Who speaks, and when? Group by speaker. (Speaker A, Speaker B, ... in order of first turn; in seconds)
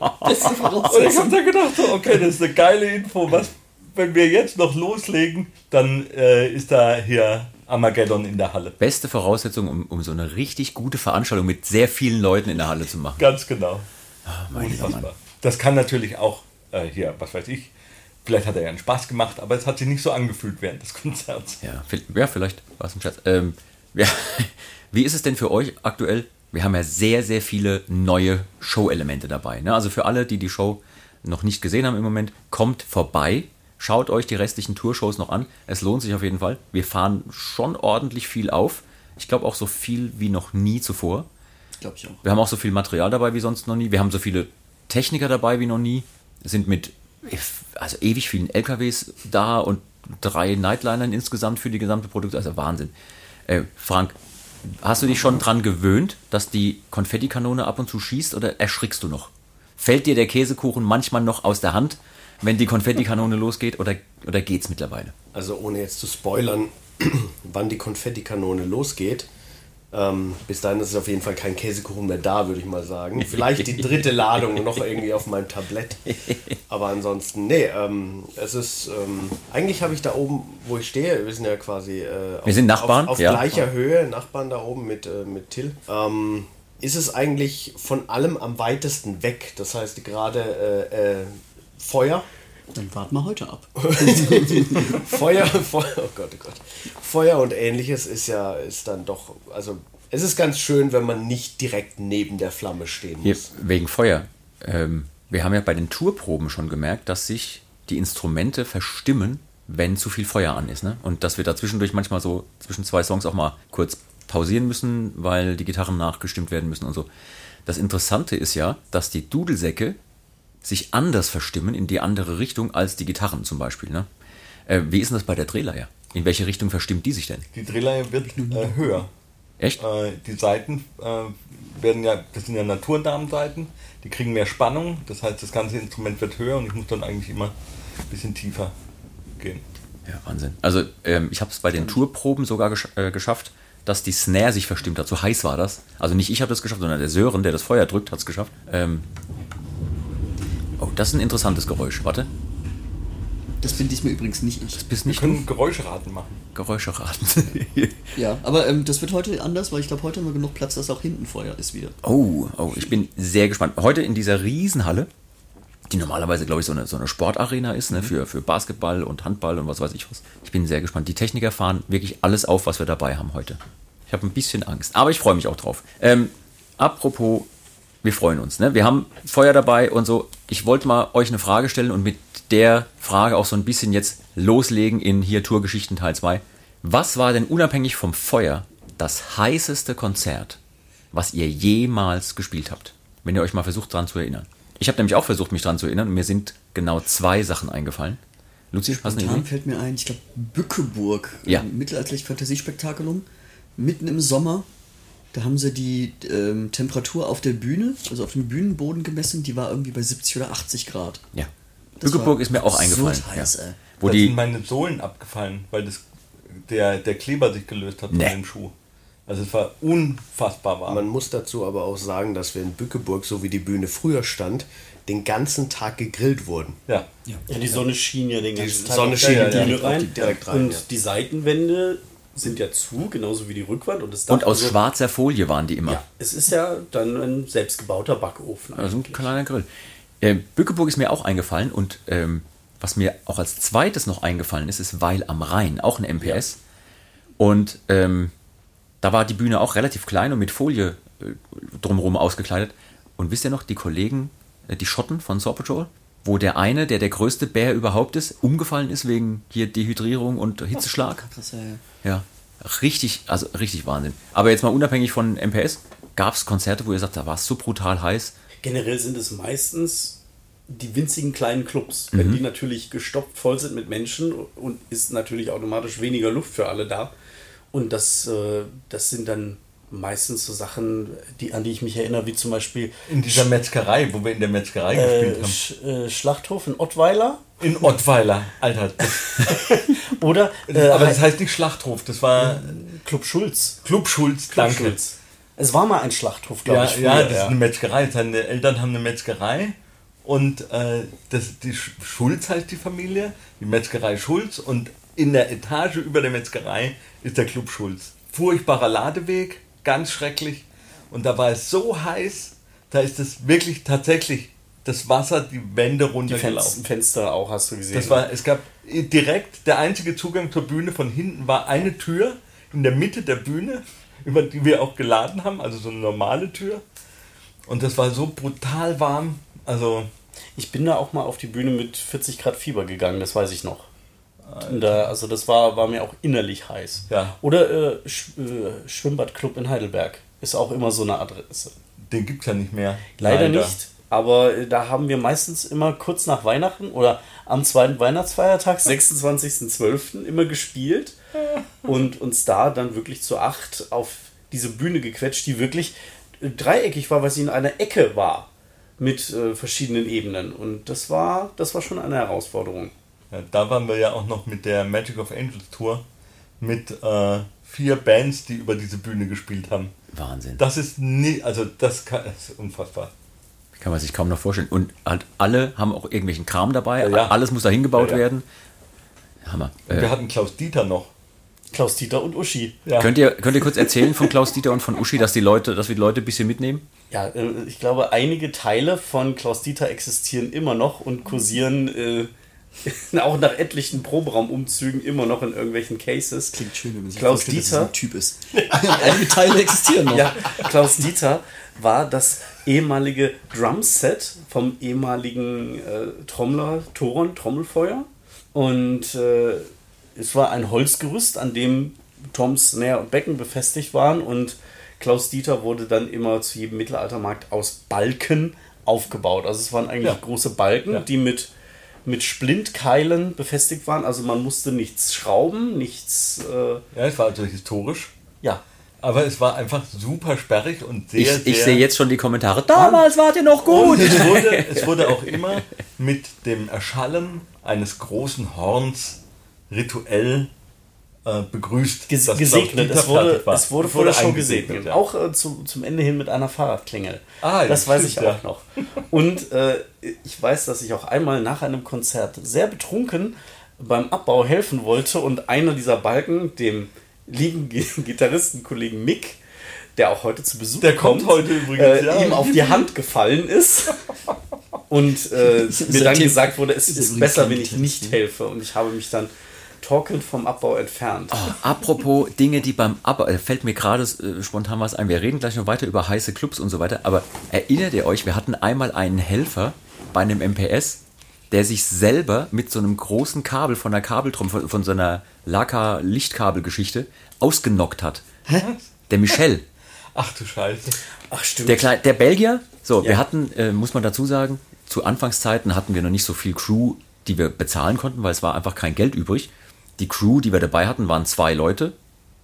Speaker A: 0.2-1.4, 41.8-42.2, 92.7-95.0, 128.3-129.0, 153.6-154.8, 158.2-162.0, 198.9-204.7, 205.3-211.2, 212.0-213.8, 229.1-230.4, 261.2-261.8, 396.5-400.4, 465.6-468.2
Speaker B: 0.9-8.8, 13.2-13.8, 14.5-17.7, 18.2-21.6, 127.5-129.1, 129.8-137.5, 138.1-138.7, 155.1-156.4, 214.0-218.7, 219.3-221.1, 229.2-229.7, 283.1-285.6, 287.6-289.5, 290.7-292.7, 293.8-295.0, 296.6-316.8, 317.9-326.8, 327.7-330.1, 334.4-335.0, 337.1-337.4, 342.0-343.8, 363.3-366.1, 366.6-369.9, 370.6-373.1, 377.0-377.3, 377.9-378.2, 379.9-381.1, 382.9-383.1, 426.9-428.1, 429.0-431.9, 433.6-440.5, 441.2-445.0, 447.4-448.4, 460.8-462.8, 488.6-488.9, 490.1-491.0
Speaker C: 8.8-13.2, 14.3-15.1, 21.6-41.3, 42.2-52.9, 53.5-65.1, 73.2-74.6, 82.5-83.5, 103.2-117.1, 117.7-120.0, 120.6-124.1, 124.7-127.5, 140.1-149.1, 150.8-152.3, 154.8-155.5, 156.5-158.2, 162.0-165.1, 165.9-177.5, 178.0-190.6, 191.1-198.2, 198.7-199.5, 212.0-214.3, 218.1-218.4, 234.3-236.0, 238.8-239.7, 240.2-246.6, 247.4-248.3, 249.0-261.3, 262.0-268.4, 272.1-272.4, 370.1-370.6, 373.8-378.4, 379.4-380.1, 383.0-386.9, 431.2-435.6, 471.3-481.0, 481.5-488.3, 489.1-489.6, 491.7-501.9
Speaker D: 65.3-69.3, 69.9-76.2, 76.7-92.3, 93.8-103.5, 220.9-226.8, 228.6-230.9
Speaker E: 227.5-234.8, 235.8-239.3, 268.6-277.1, 277.7-283.5, 284.9-287.6, 289.1-291.2, 292.4-293.8, 294.5-297.6, 316.3-318.2, 330.6-333.9, 334.6-341.7, 343.2-351.2, 351.8-362.9, 381.7-382.8, 387.1-392.3, 392.9-396.6, 397.1-397.9, 400.1-421.5, 422.1-426.8, 442.1-459.4, 460.0-464.0, 464.9-471.4, 491.3-491.9